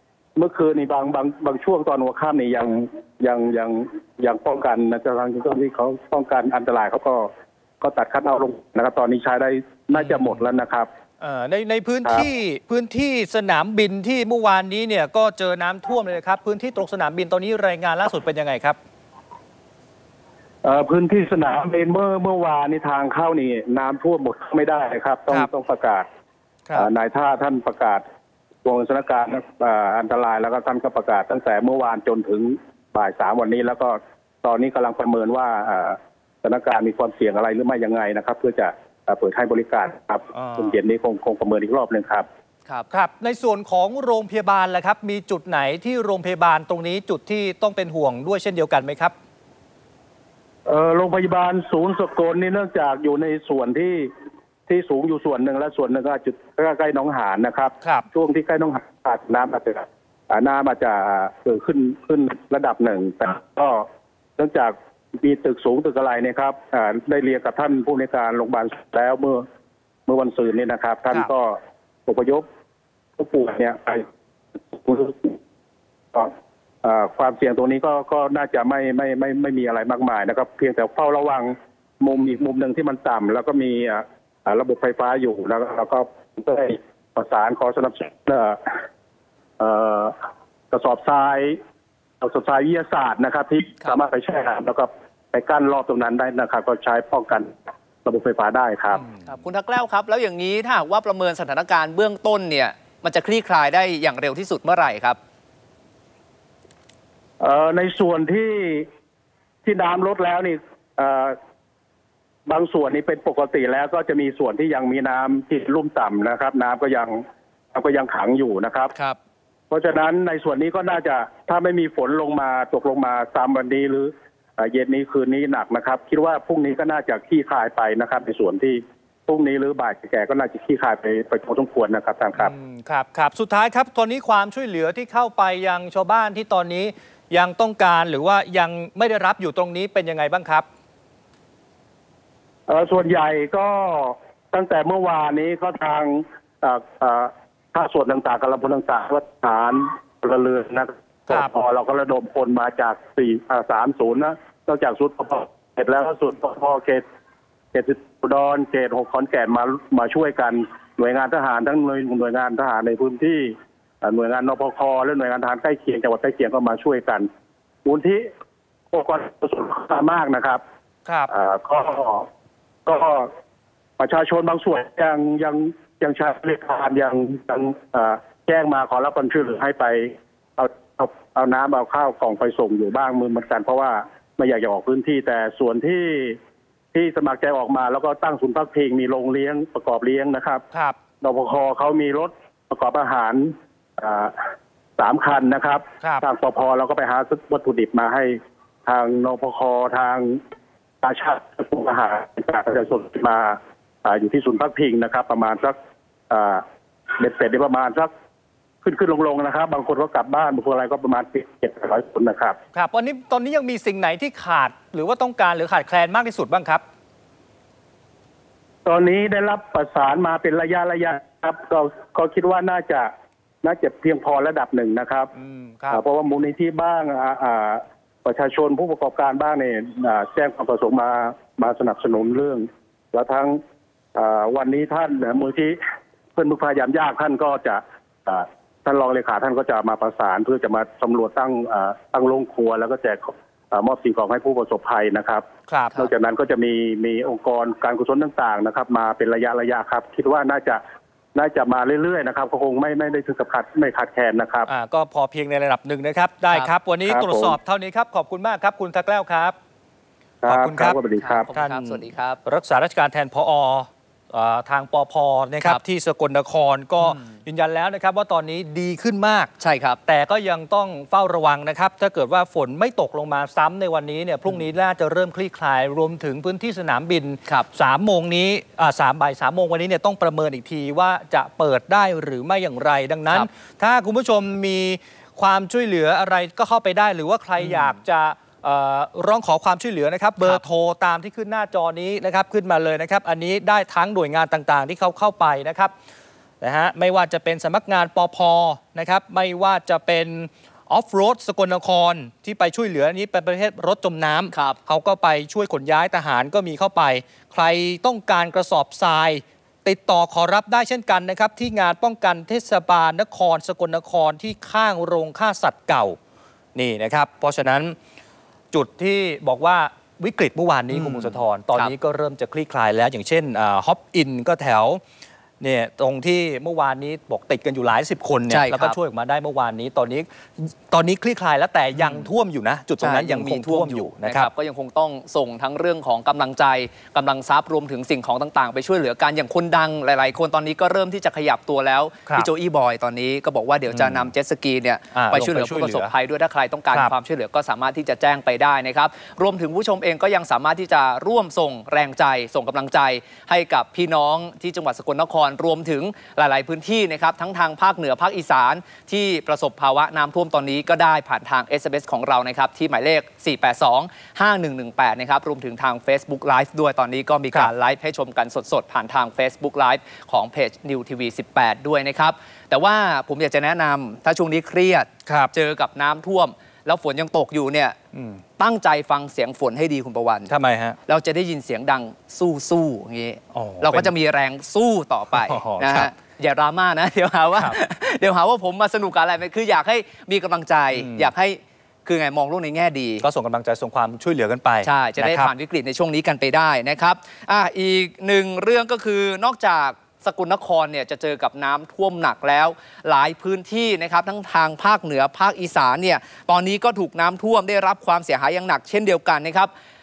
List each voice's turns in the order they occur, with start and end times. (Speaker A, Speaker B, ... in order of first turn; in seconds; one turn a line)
Speaker A: 0.3-10.9
Speaker B: 9.9-10.4
Speaker B: 11.2-18.8
Speaker A: 20.6-26.1
Speaker A: 26.7-28.0
Speaker A: 28.6-42.3
Speaker B: 40.3-40.8
Speaker B: 42.9-49.1
Speaker A: 50.6-54.1
Speaker A: 54.7-63.9
Speaker A: 64.4-69.5
Speaker A: 70.1-72.4
Speaker A: 73.2-74.1
Speaker A: 74.7-75.4
Speaker A: 76.1-88.8
Speaker A: 89.6-90.1
Speaker A: 90.7-91.6
Speaker A: 92.2-97.5
Speaker A: 98.0-99.0
Speaker C: 99.3-105.2
Speaker A: 107.4-108.9
Speaker A: 109.6-111.4
Speaker A: 112.5-117.2
Speaker A: 117.7-118.9
Speaker A: 119.7-132.5
Speaker B: 132.4-140.7
Speaker A: 142.7-157.0
Speaker A: 157.7-167.3
Speaker A: 167.8-168.3
Speaker A: 168.9-170.6
Speaker B: 171.1-171.3
Speaker A: 171.3-172.3
Speaker A: 172.8-173.3
Speaker A: 174.0-186.4
Speaker A: 186.9-190.6
Speaker B: 190.7-191.0
Speaker A: 191.2-194.4
Speaker A: 195.0-200.4
Speaker A: 201.0-205.7
Speaker A: 206.3-208.1
Speaker A: 208.8-212.6
Speaker B: 212.7-216.8
Speaker A: 218.8-223.1
Speaker A: 223.6-225.3
Speaker B: 225.3-226.0
Speaker A: 225.9-233.6
Speaker A: 234.1-235.8
Speaker A: 236.3-250.8
Speaker B: 245.7-246.0
Speaker A: 251.3-254.7
Speaker B: 254.7-259.6
Speaker A: 257.1-257.6
Speaker A: 260.4-261.4
Speaker B: 260.4-261.0
Speaker C: 261.2-262.4
Speaker B: 261.5-269.5
Speaker C: 267.0-267.4
Speaker C: 269.6-270.0
Speaker B: 270.1-295.9
Speaker C: 287.6-287.9
Speaker B: 296.6-316.2
Speaker B: 316.7-317.9
Speaker B: 318.7-325.0
Speaker C: 320.9-321.9
Speaker B: 325.6-334.5
Speaker C: 328.5-329.0
Speaker C: 332.0-332.2
Speaker C: 333.0-378.0
Speaker B: 343.9-344.3
Speaker B: 345.1-346.1
Speaker B: 375.2-375.5
Speaker B: 378.1-378.4
Speaker C: 378.6-380.5
Speaker B: 380.5-381.0
Speaker C: 381.1-393.2
Speaker B: 383.5-384.1
Speaker B: 385.3-386.1
Speaker B: 390.9-391.3
Speaker B: 393.2-395.5
Speaker C: 394.8-409.7